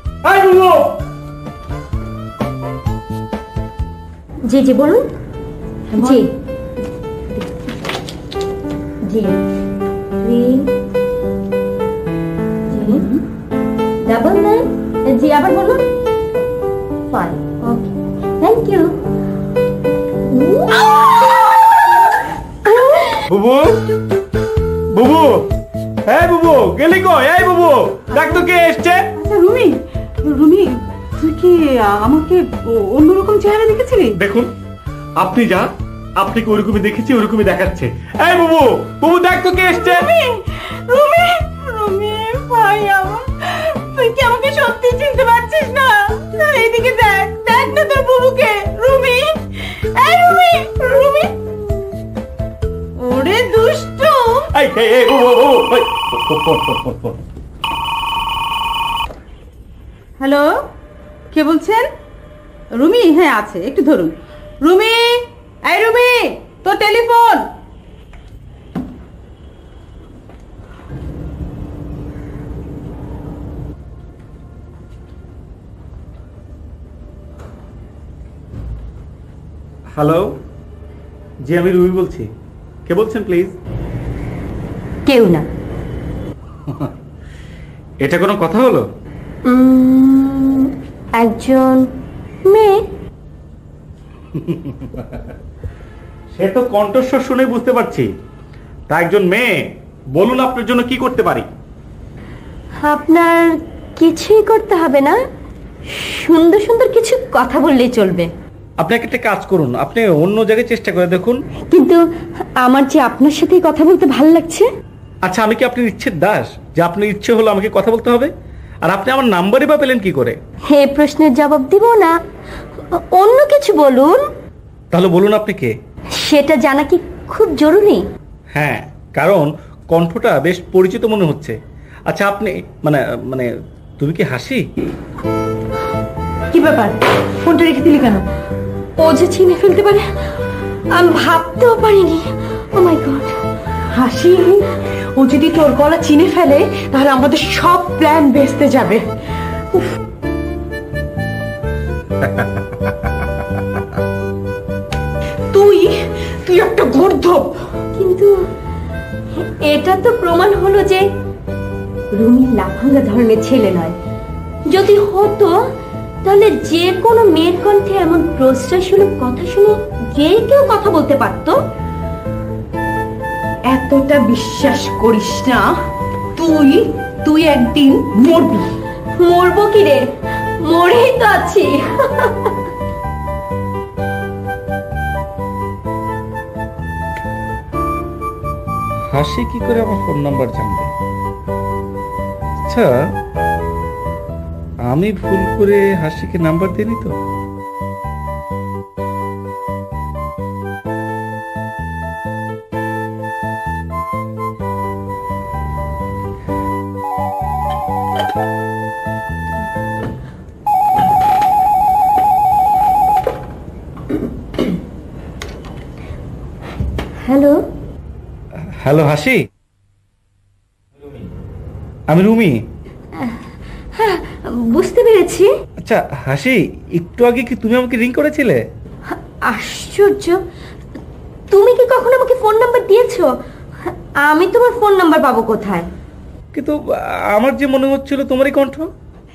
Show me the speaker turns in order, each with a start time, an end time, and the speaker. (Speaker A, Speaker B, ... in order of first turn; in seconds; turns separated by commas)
Speaker A: 0.2-1.0, Speaker B: 4.5-5.1, Speaker C: 5.9-6.2, Speaker B: 6.0-6.3, Speaker B: 9.1-9.3, Speaker B: 10.2-10.7, Speaker B: 12.7-13.1, Speaker B: 14.1-15.8, Speaker B: 17.1-18.9, Speaker B: 20.3-21.5, Speaker B: 22.6-23.2, Speaker A: 23.3-23.8, Speaker A: 24.9-25.5, Speaker A: 26.1-29.0, Speaker C: 29.2-34.2, Speaker A: 34.2-34.5, Speaker A: 35.2-40.1, Speaker C: 39.8-51.4, Speaker C: 53.0-54.5, Speaker A: 54.5-57.2, Speaker C: 60.2-60.5, Speaker C: 61.3-61.9, Speaker C: 62.7-67.5, Speaker A: 80.0-80.4, Speaker A: 81.5-82.3, Speaker A: 82.9-83.5, Speaker B: 85.1-85.5, Speaker A: 86.7-86.9, Speaker A: 88.0-88.9, Speaker B: 89.5-91.9, Speaker B: 92.5-92.8, Speaker A: 94.3-95.2, Speaker A: 96.3-98.1, Speaker A: 98.9-99.6, Speaker A: 100.2-101.5, Speaker B: 102.8-105.2, Speaker B: 105.9-108.3, Speaker A: 108.8-111.4, Speaker B: 111.7-112.0, Speaker B: 112.6-114.7, Speaker A: 115.2-118.3, Speaker A: 118.8-120.4, Speaker B: 120.7-122.1, Speaker B: 122.9-124.2, Speaker A: 124.9-125.7, Speaker B: 126.2-128.0, Speaker A: 128.6-131.6, Speaker A: 132.1-133.5, Speaker A: 134.0-134.6, Speaker C: 136.5-138.2, Speaker B: 139.0-140.1, Speaker B: 140.9-143.4, Speaker C: 144.0-149.0, Speaker C: 155.5-155.9, Speaker C: 156.5-157.5, Speaker B: 158.0-158.3, Speaker B: 159.4-161.1, Speaker B: 162.1-163.9, Speaker B: 164.7-165.5, Speaker B: 166.2-171.6, Speaker C: 173.7-175.6, Speaker C: 176.4-178.6, Speaker B: 179.2-180.0, Speaker B: 180.6-182.5, Speaker A: 189.1-190.9, Speaker A: 192.7-192.9, Speaker A: 194.9-197.2, Speaker B: 217.2-217.6, Speaker A: 218.7-219.5, Speaker A: 222.1-222.6, Speaker B: 223.2-225.5, Speaker A: 225.8-228.6, Speaker B: 229.1-230.4, Speaker B: 231.5-233.3, Speaker B: 234.2-235.9, Speaker A: 237.3-238.9